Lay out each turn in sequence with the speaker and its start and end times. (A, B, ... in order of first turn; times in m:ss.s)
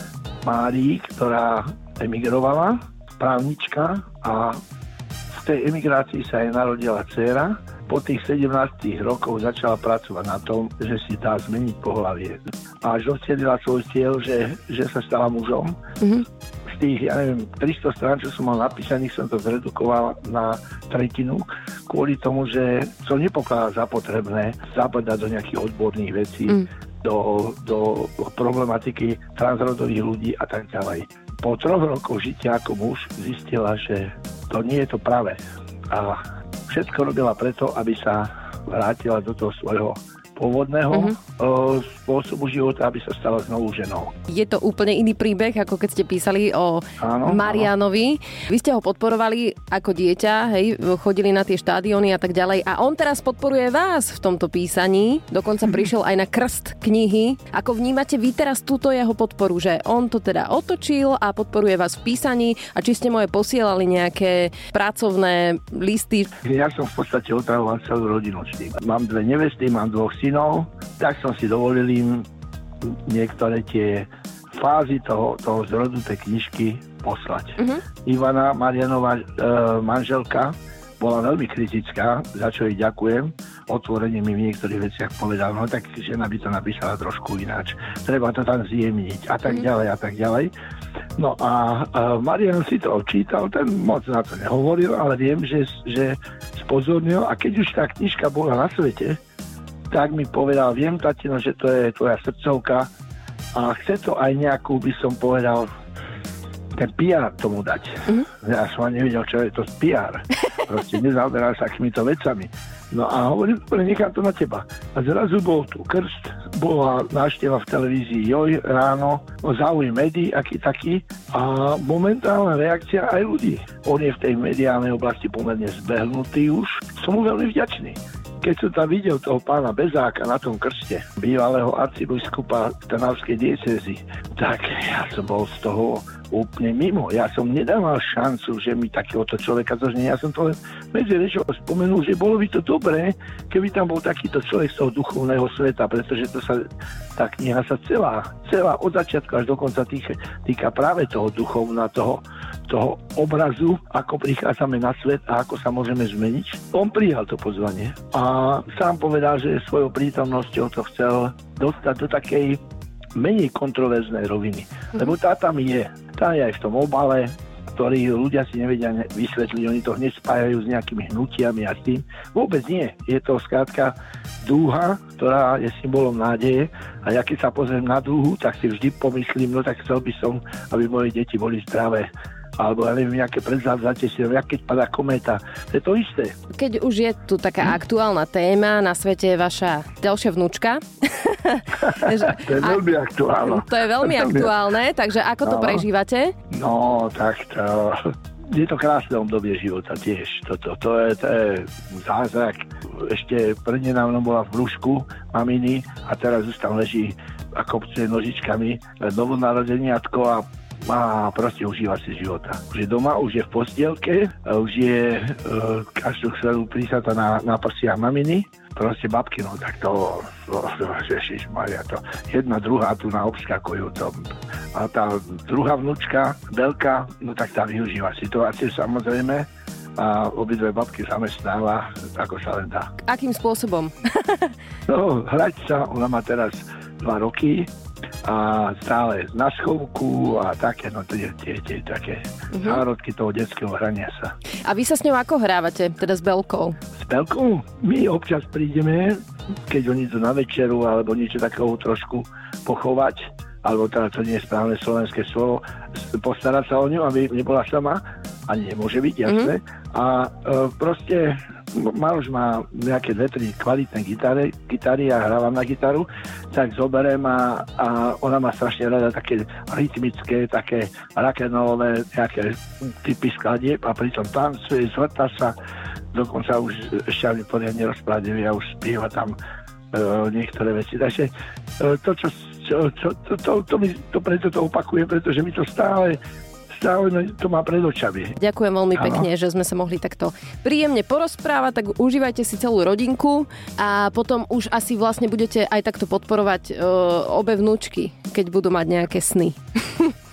0:00.4-0:04.6 A
0:05.3-0:15.8 A
0:16.7-0:44.1 A
0:40.9-0:41.2 B
0:44.3-1:06.3 B
0:47.0-0:47.7 A
1:06.4-1:12.3 A
1:12.8-1:30.5 A
1:31.2-1:39.2 A
1:39.9-1:42.9 A
1:43.6-1:45.7 A
1:46.8-2:42.6 A
2:43.2-3:06.4 A
3:06.5-3:12.9 B
3:11.8-3:14.5 A
3:13.4-3:16.3 B
3:15.4-3:15.8 A
3:16.5-3:52.9 A
3:53.0-3:54.5 B
3:54.9-3:57.7 A
3:58.2-4:04.3 A
4:02.5-4:02.8 B
4:04.7-4:06.8 B
4:07.0-4:35.6 A
4:19.3-4:19.5 B
4:36.1-4:39.4 A
4:39.9-4:46.2 A
4:46.7-4:48.4 A
4:48.4-5:00.1 B
4:49.0-4:49.3 A